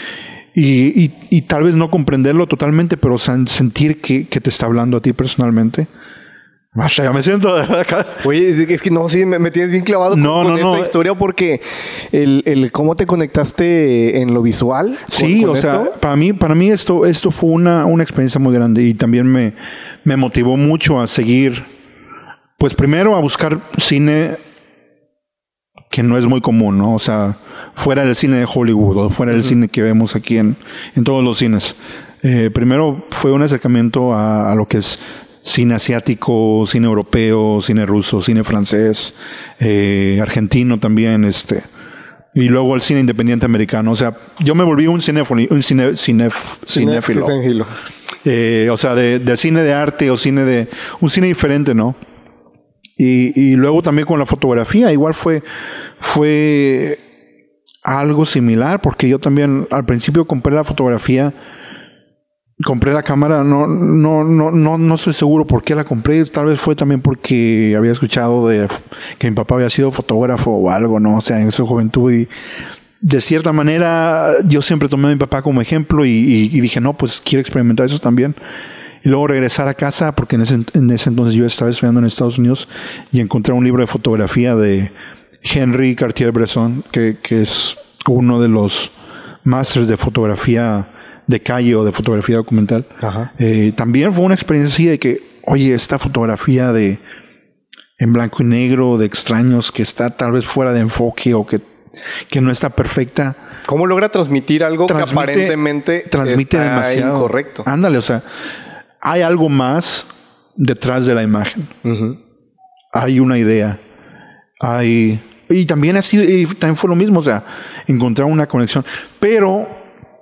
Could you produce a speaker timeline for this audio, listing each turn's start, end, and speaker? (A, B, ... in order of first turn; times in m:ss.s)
0:00.5-0:05.9 A
0:06.7-0:08.2 A
0:08.2-0:15.9 B
0:10.1-0:10.9 A
0:15.1-0:21.7 A
0:22.6-0:24.4 A
0:25.9-0:41.7 A
0:42.3-0:47.4 A
0:46.7-0:47.7 B
0:48.2-0:52.0 A
0:53.0-0:55.4 A
0:56.0-0:57.0 A
0:57.8-1:01.3 A
1:02.6-1:12.3 A
1:13.0-1:18.4 A
1:19.0-1:28.9 A
1:29.4-1:37.0 A
1:33.0-1:33.3 B
1:38.0-1:41.6 A
1:42.3-1:43.4 A
1:43.6-1:47.6 B
1:44.9-1:48.2 A
1:49.0-1:51.7 A
1:51.8-1:52.2 B
1:52.9-1:53.8 A
1:54.6-1:59.8 A